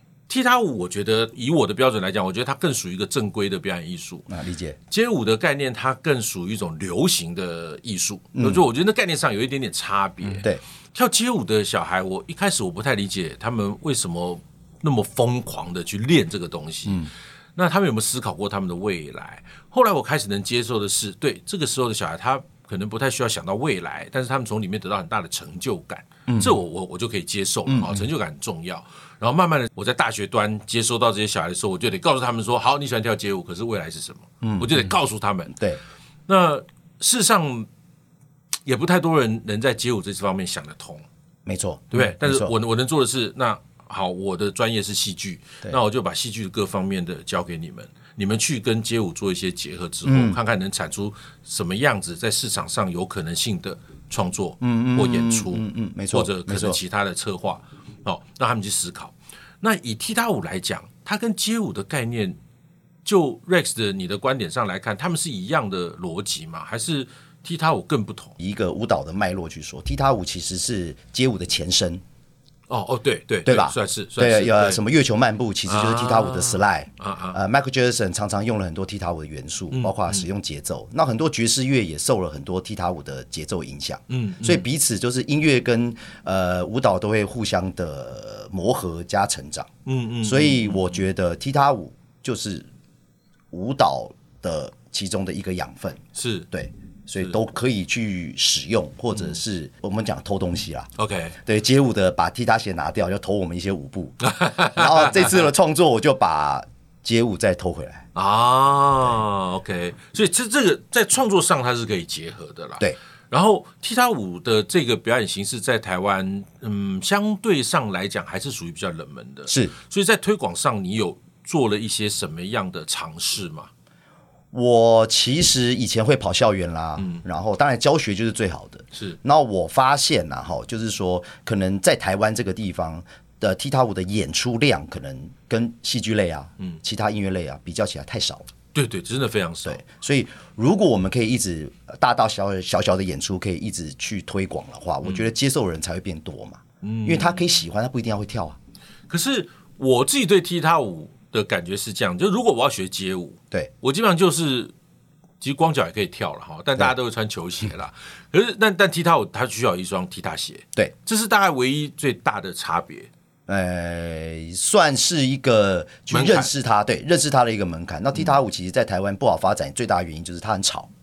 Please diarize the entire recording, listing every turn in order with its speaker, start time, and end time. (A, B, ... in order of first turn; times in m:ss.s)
0:00.3-0:04.3 A
0:04.3-0:04.8 B
0:04.9-0:35.6 A
0:08.3-0:08.6 B
0:26.3-0:26.6 B
0:27.7-0:28.0 B
0:34.4-0:34.7 B
0:36.3-0:37.7 A
0:38.6-0:41.0 A
0:41.4-0:42.5 B
0:41.9-1:02.4 A
0:50.0-0:50.4 B
0:54.6-0:56.8 B
1:03.0-1:08.3 A
1:08.4-1:12.0 B
1:12.7-1:14.8 A
1:13.4-1:29.7 B
1:15.6-1:17.4 A
1:19.7-1:20.3 A
1:24.1-1:24.6 A
1:29.8-1:31.0 A
1:30.2-1:32.7 B
1:33.5-1:40.9 B
1:36.2-1:36.5 A
1:41.0-1:41.4 A
1:41.4-1:48.0 B
1:44.2-1:45.5 A
1:48.1-2:03.7 A
1:59.5-1:59.7 B
2:04.5-2:18.5 B
2:07.0-2:07.2 A
2:18.7-2:19.8 A
2:19.6-2:28.6 B
2:25.0-2:25.3 A
2:26.8-2:27.6 A
2:29.1-2:34.7 A
2:35.4-2:43.1 A
2:43.5-2:50.9 B
2:46.1-2:46.5 A